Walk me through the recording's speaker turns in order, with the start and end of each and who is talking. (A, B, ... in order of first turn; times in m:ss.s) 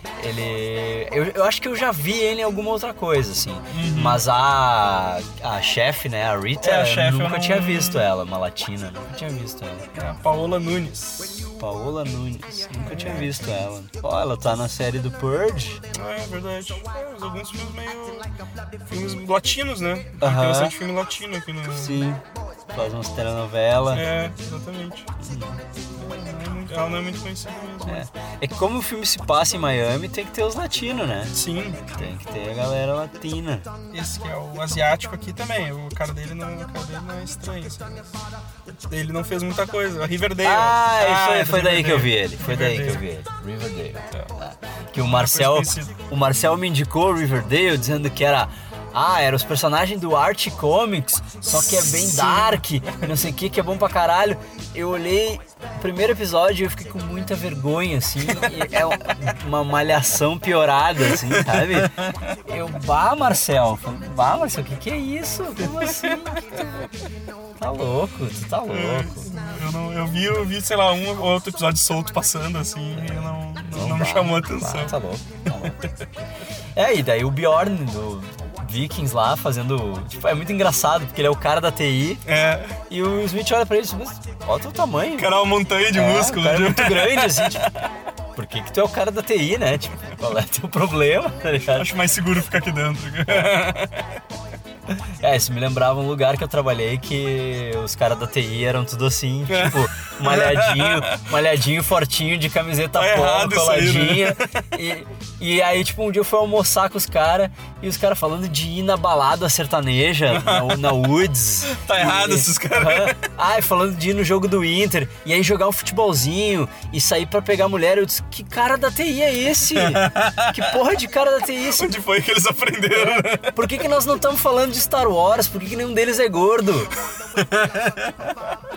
0:00.2-0:09.8 A
0:03.7-0:04.2 B
0:06.6-0:08.1 B
0:09.9-0:11.6 B
0:11.6-0:15.8 A
0:12.8-0:13.4 B
0:15.9-0:18.3 B
0:18.9-0:22.0 B
0:20.2-0:20.7 A
0:21.7-0:24.1 A
0:23.9-0:25.1 B
0:25.2-0:25.6 A
0:25.9-0:28.0 B
0:27.8-0:31.4 A
0:31.3-0:32.0 B
0:32.0-0:33.7 A
0:33.9-0:38.2 B
0:38.8-0:43.0 B
0:40.4-1:06.6 A
0:45.0-0:45.9 B
0:51.5-0:52.7 B
0:58.3-0:58.8 B
1:01.1-1:02.3 B
1:05.6-1:06.2 B
1:07.6-1:09.3 A
1:08.7-1:14.9 B
1:12.9-1:15.8 A
1:16.7-1:22.2 A
1:22.2-1:22.8 B
1:22.9-1:25.3 A
1:25.2-1:27.9 B
1:25.9-1:27.7 A
1:28.3-1:31.9 A
1:31.7-1:34.1 B
1:34.9-2:01.9 A
1:39.5-1:41.2 B
1:42.9-1:44.6 B
1:50.3-1:51.1 B
1:51.6-1:53.3 B
1:59.7-2:00.7 B
2:01.6-2:03.8 B
2:02.9-2:06.9 A
2:07.2-2:08.3 B